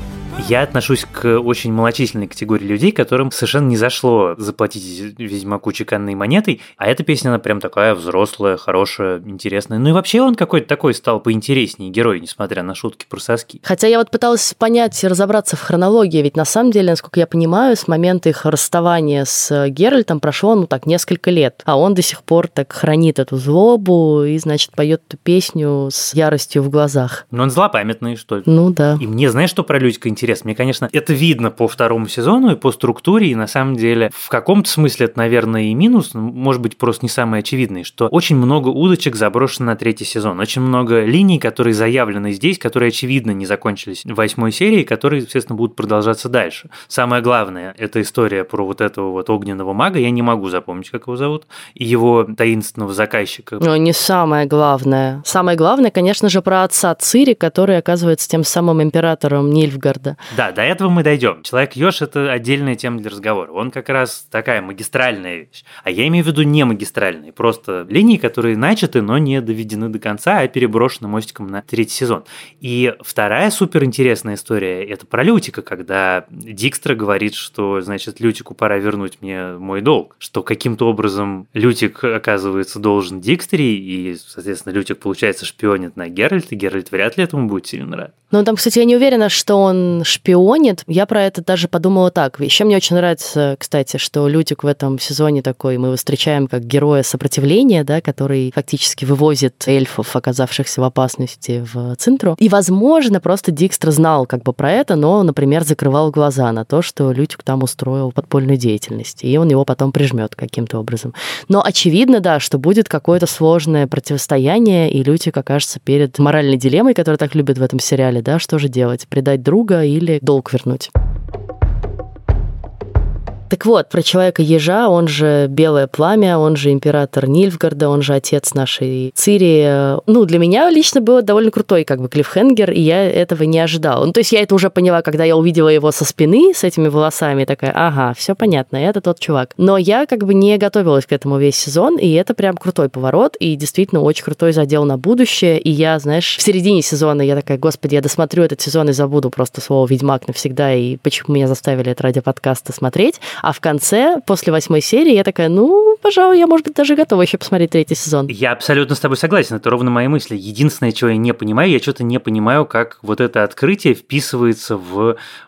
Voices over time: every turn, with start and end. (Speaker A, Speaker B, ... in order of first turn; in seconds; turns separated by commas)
Speaker A: 0.4-13.6, Speaker B: 13.6-27.2, Speaker A: 27.3-53.6, Speaker B: 28.5-29.0, Speaker B: 53.6-60.2, Speaker A: 60.3-88.1, Speaker B: 88.3-120.9, Speaker B: 123.5-158.3, Speaker A: 158.3-165.2